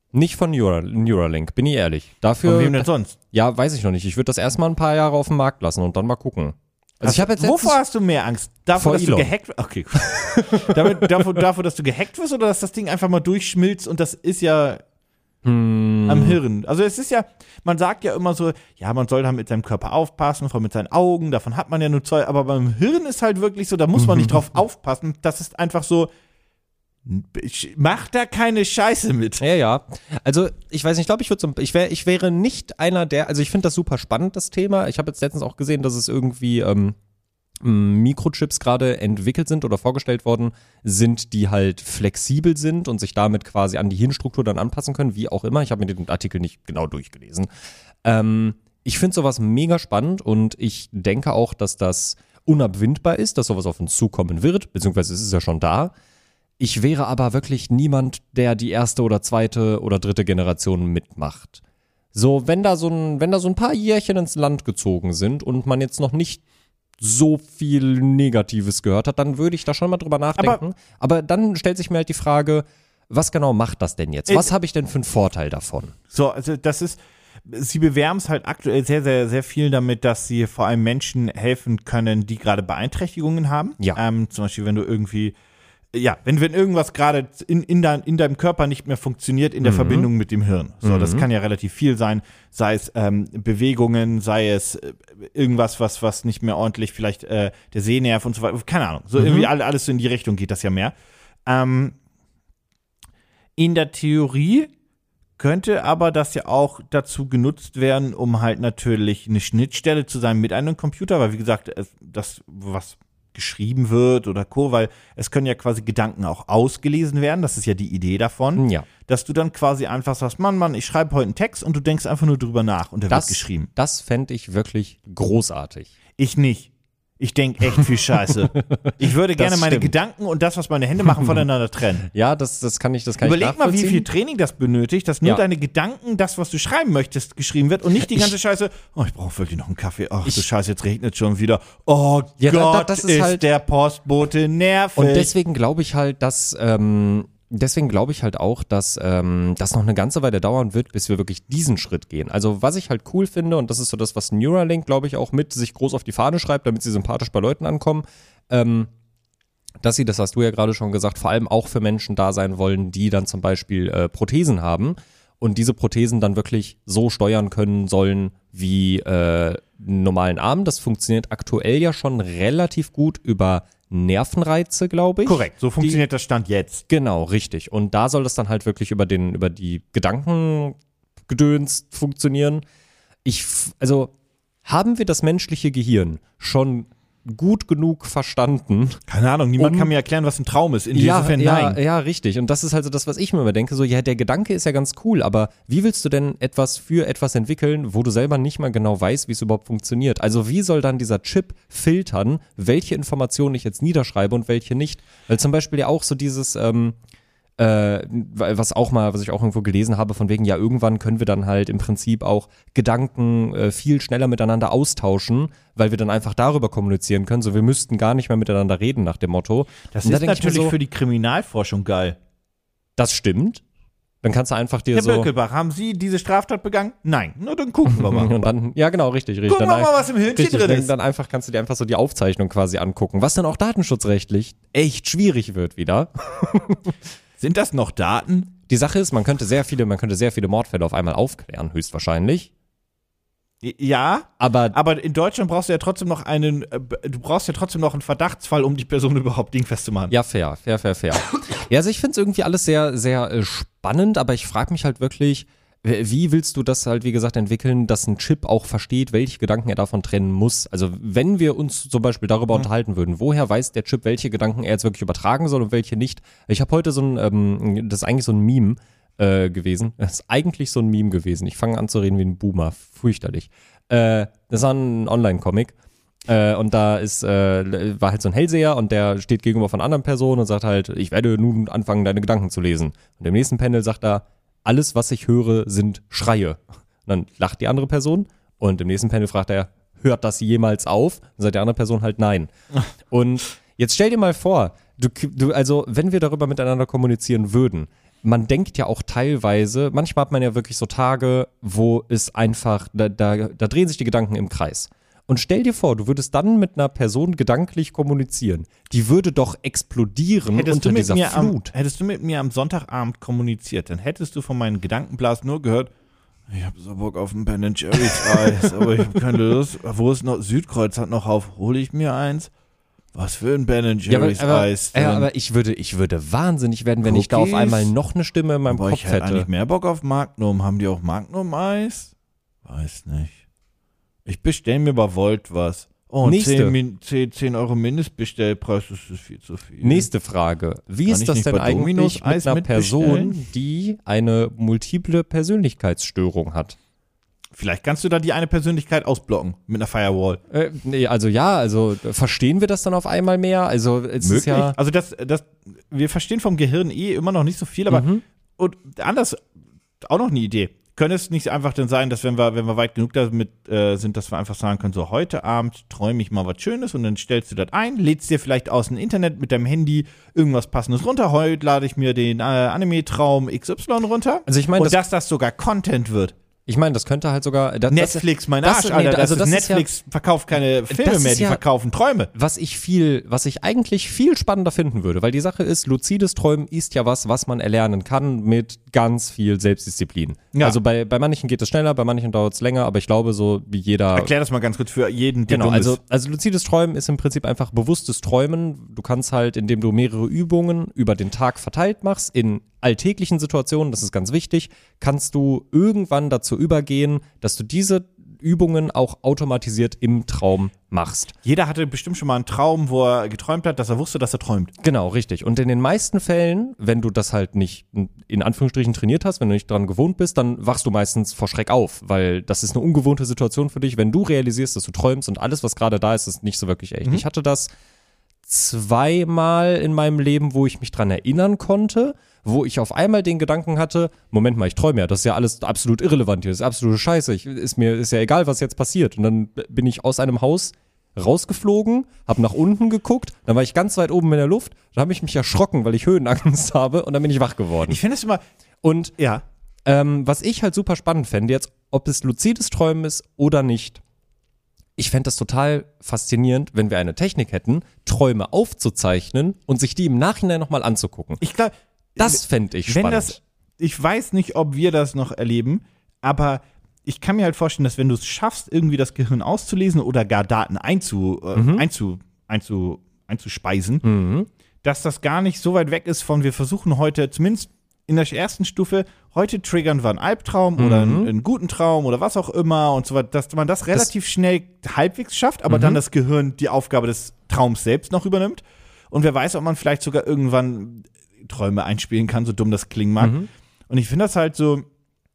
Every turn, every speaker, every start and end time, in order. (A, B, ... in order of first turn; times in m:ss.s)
0:00.1-0:07.8 A
0:02.4-0:03.2 B
0:07.0-0:14.8 B
0:08.8-0:09.3 A
0:10.1-0:11.3 A
0:15.4-0:16.4 A
0:16.0-0:26.1 B
0:24.0-0:24.4 A
0:27.0-0:29.4 B
0:29.4-0:37.0 A
0:37.6-0:47.5 A
0:48.0-0:55.9 A
0:56.6-1:01.6 A
1:02.1-1:06.4 A
1:07.0-1:15.9 A
1:16.1-1:25.4 B
1:25.9-1:40.9 B
1:29.6-1:30.1 A
1:30.8-1:31.2 A
1:39.2-1:39.5 A
1:41.4-1:42.0 B
1:43.6-1:44.7 B
1:45.4-2:03.7 B
1:58.6-1:58.9 A
2:03.1-2:05.9 A
2:06.2-2:12.0 B
2:08.5-2:09.9 A
2:12.1-2:14.0 A
2:13.2-2:25.3 B
2:22.4-2:23.4 A
2:25.0-2:38.9 A
2:39.8-2:56.0 A
2:55.2-2:56.8 B
2:56.9-3:00.8 A
3:01.3-3:02.6 A
3:03.2-3:04.1 A
3:04.6-3:09.0 A
3:09.1-3:11.8 B
3:09.6-3:09.9 A
3:10.9-3:27.0 A
3:27.6-3:40.7 A
3:39.9-3:42.2 B
3:43.0-3:43.6 A
3:44.2-3:45.3 A
3:44.9-3:48.4 B
3:47.9-3:56.9 A
3:49.5-3:50.9 B
3:57.4-3:58.5 B
3:58.7-4:02.5 A
4:03.6-4:10.1 B
4:04.4-4:04.8 A
4:10.1-4:35.7 A
4:36.3-4:52.5 A
4:53.1-5:11.7 A
5:10.5-5:15.9 B
5:16.5-5:22.5 B
5:18.0-5:18.8 A
5:23.1-5:25.3 B
5:24.1-5:29.5 A
5:27.0-5:27.9 B
5:28.7-5:32.1 B
5:32.6-5:33.4 B
5:34.2-5:40.1 B
5:36.2-5:36.8 A
5:39.8-5:46.8 A
5:41.1-5:43.4 B
5:47.5-5:50.4 B
5:50.5-5:54.7 A
5:54.2-5:59.4 B
5:57.9-5:58.2 A
6:00.0-6:16.3 B
6:14.5-6:15.0 A
6:16.6-6:19.8 A
6:17.9-6:22.3 B
6:20.9-6:21.6 A
6:22.3-6:34.3 A
6:30.5-6:30.8 B
6:34.1-6:36.0 B
6:35.5-6:51.3 A
6:51.4-6:54.7 B
6:54.8-7:07.7 A
7:08.4-7:28.0 A
7:27.8-7:28.4 B
7:28.8-7:29.1 A
7:29.2-7:29.4 B
7:29.8-7:34.0 A
7:35.0-7:41.4 A
7:41.4-7:54.0 B
7:42.2-7:43.4 A
7:51.5-7:51.8 A
7:54.0-7:54.5 A
7:54.8-8:13.4 B
8:00.8-8:01.3 A
8:05.7-8:06.0 A
8:13.2-8:13.5 A
8:13.9-8:14.8 B